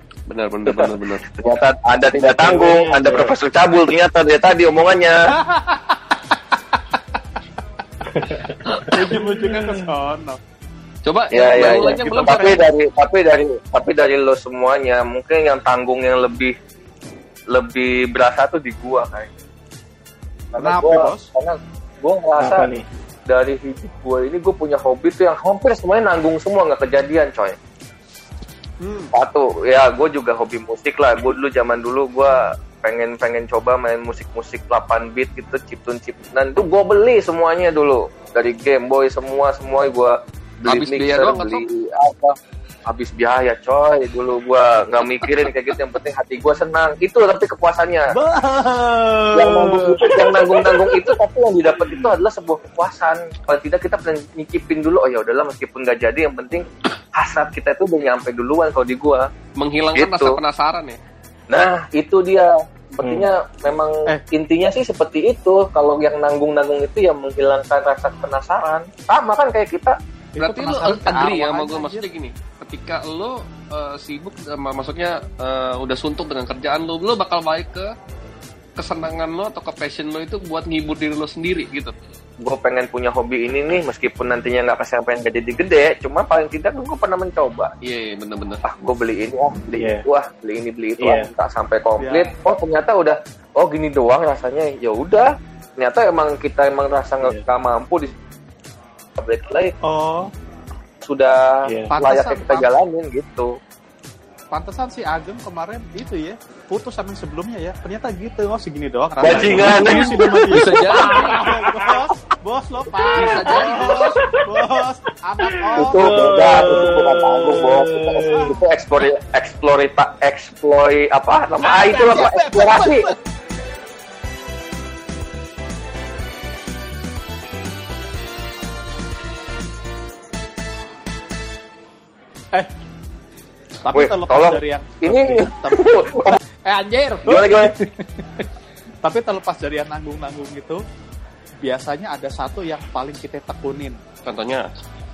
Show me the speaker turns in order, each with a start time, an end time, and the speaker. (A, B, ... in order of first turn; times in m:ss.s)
0:00.3-0:01.2 A
0:00.7-0:05.4 B
0:02.2-0:03.3 C
0:05.3-0:06.2 D
0:08.0-0:09.8 C
0:08.8-0:10.4 D
0:11.0-0:12.6 A
0:11.3-0:16.5 B
0:11.5-0:12.6 D
0:17.5-0:19.3 B
0:20.5-0:22.6 B
0:20.6-0:21.3 D
0:22.4-0:22.8 C
0:23.3-0:27.6 B
0:28.8-0:29.1 D
0:29.1-0:42.4 B
0:40.7-0:41.6 A
0:42.9-0:48.1 B
0:48.1-0:50.4 D
0:49.3-0:59.3 B
0:50.3-0:50.8 C
0:59.6-1:01.0 A
0:59.9-1:00.4 B
1:01.5-1:10.0 B
1:03.0-1:03.3 C
1:10.4-1:12.1 D
1:10.4-1:17.9 A
1:18.8-1:21.9 A
1:22.4-1:27.7 B
1:27.8-1:28.6 A
1:28.6-1:38.1 B
1:29.8-1:30.0 C
1:31.0-1:31.3 C
1:32.0-1:32.3 D
1:39.2-1:39.7 B
1:39.8-1:40.3 D
1:41.0-1:43.5 B
1:41.6-1:41.9 C
1:41.9-1:42.7 D
1:44.5-1:56.8 D
1:49.2-1:50.4 B
1:49.8-1:51.8 C
1:50.5-1:51.4 A
1:53.1-1:54.2 A
1:53.3-1:54.8 C
1:55.4-1:58.6 C
1:55.7-2:03.1 B
1:58.2-1:58.5 D
2:01.6-2:03.1 D
2:13.8-2:18.4 D
2:13.9-2:16.4 B
2:17.2-2:17.7 B
2:19.0-2:20.8 D
2:21.6-2:24.0 D
2:24.2-2:24.7 A